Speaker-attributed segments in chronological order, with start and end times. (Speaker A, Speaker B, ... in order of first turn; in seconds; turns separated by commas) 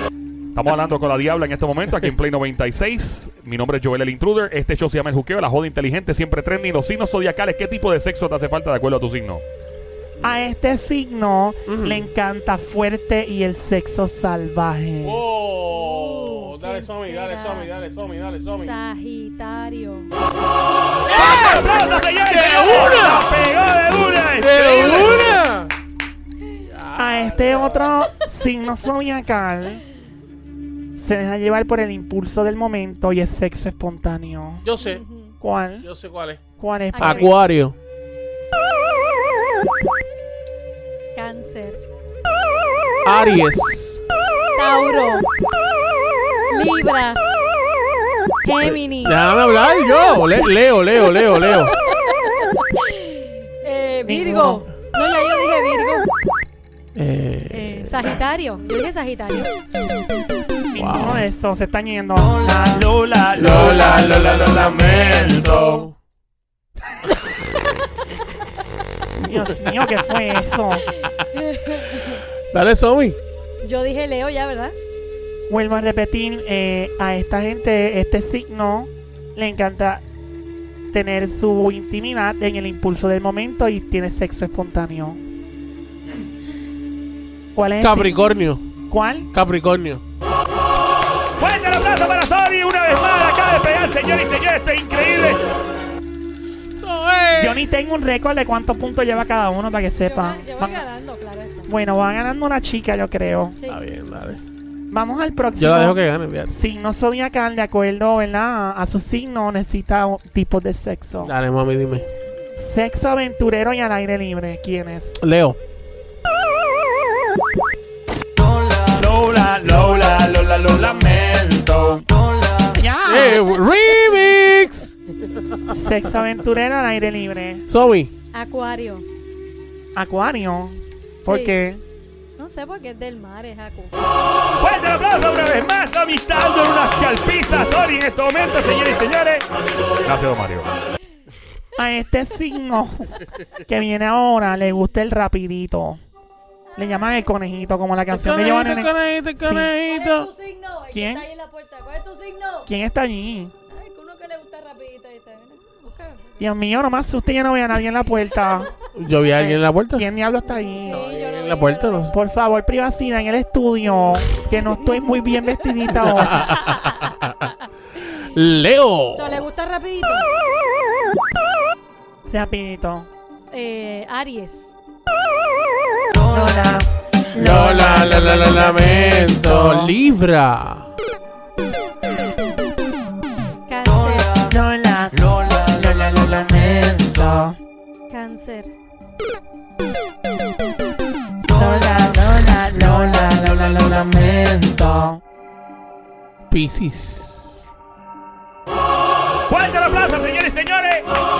Speaker A: 0.5-9.4, Speaker B: 10.2-15.2, Speaker C: 11.7-12.0, Speaker C: 15.0-18.7, Speaker D: 15.7-17.7, Speaker D: 18.5-20.1, Speaker C: 21.1-23.3, Speaker A: 21.1-25.4, Speaker C: 24.4-25.7, Speaker C: 26.7-27.9, Speaker B: 26.9-29.8, Speaker B: 31.0-34.7, Speaker C: 34.6-35.0, Speaker D: 34.8-35.4, Speaker B: 35.4-35.9, Speaker C: 35.8-36.4, Speaker B: 36.6-37.3, Speaker D: 36.9-37.3, Speaker C: 37.0-37.8, Speaker D: 41.1-41.8, Speaker C: 43.0-44.0, Speaker D: 44.5-45.3, Speaker D: 46.5-47.2, Speaker D: 48.4-49.2, Speaker C: 48.6-51.7, Speaker D: 51.2-56.1, Speaker B: 54.1-54.7, Speaker C: 57.0-58.1, Speaker D: 57.5-59.5, Speaker B: 60.7-62.9, Speaker C: 60.8-61.2, Speaker A: 62.8-65.6, Speaker C: 63.4-65.9, Speaker B: 69.2-70.9, Speaker D: 71.3-72.2, Speaker C: 72.5-73.2, Speaker D: 73.6-74.8, Speaker B: 75.5-80.0, Speaker B: 80.9-85.2, Speaker B: 87.5-88.2, Speaker C: 87.8-88.6, Speaker B: 88.9-89.3, Speaker C: 89.3-90.0, Speaker A: 91.4-95.4, Speaker C: 96.8-97.6, Speaker B: 97.3-100.8, Speaker D: 100.0-101.7, Speaker B: 101.7-103.6, Speaker C: 103.7-104.4, Speaker B: 104.9-111.3, Speaker C: 105.6-106.5, Speaker C: 111.2-112.1, Speaker B: 112.6-115.2, Speaker C: 115.2-115.6, Speaker A: 118.9-122.0, Speaker B: 122.8-123.5, Speaker C: 123.0-125.0, Speaker B: 125.7-127.6, Speaker C: 127.7-128.1, Speaker D: 128.3-129.1, Speaker B: 129.9-131.8, Speaker D: 131.2-131.6, Speaker D: 132.4-134.0, Speaker A: 134.6-139.4, Speaker A: 140.1-140.7, Speaker B: 141.8-146.0, Speaker B: 146.8-149.7, Speaker C: 148.1-150.3, Speaker D: 149.8-152.7, Speaker B: 150.9-151.2, Speaker B: 152.7-153.5, Speaker D: 153.7-156.4, Speaker B: 156.4-158.7, Speaker C: 158.9-160.1, Speaker B: 159.4-161.1, Speaker D: 160.5-162.1, Speaker C: 160.9-162.1, Speaker B: 162.1-166.5, Speaker C: 166.0-167.5, Speaker C: 168.0-169.5, Speaker D: 169.1-170.3, Speaker B: 172.3-173.1, Speaker D: 173.5-174.7, Speaker B: 176.2-180.0, Speaker C: 177.3-180.9, Speaker D: 183.7-184.4, Speaker B: 184.4-187.6, Speaker D: 188.1-188.7, Speaker B: 191.5-195.2, Speaker C: 196.5-197.6, Speaker A: 199.5-201.1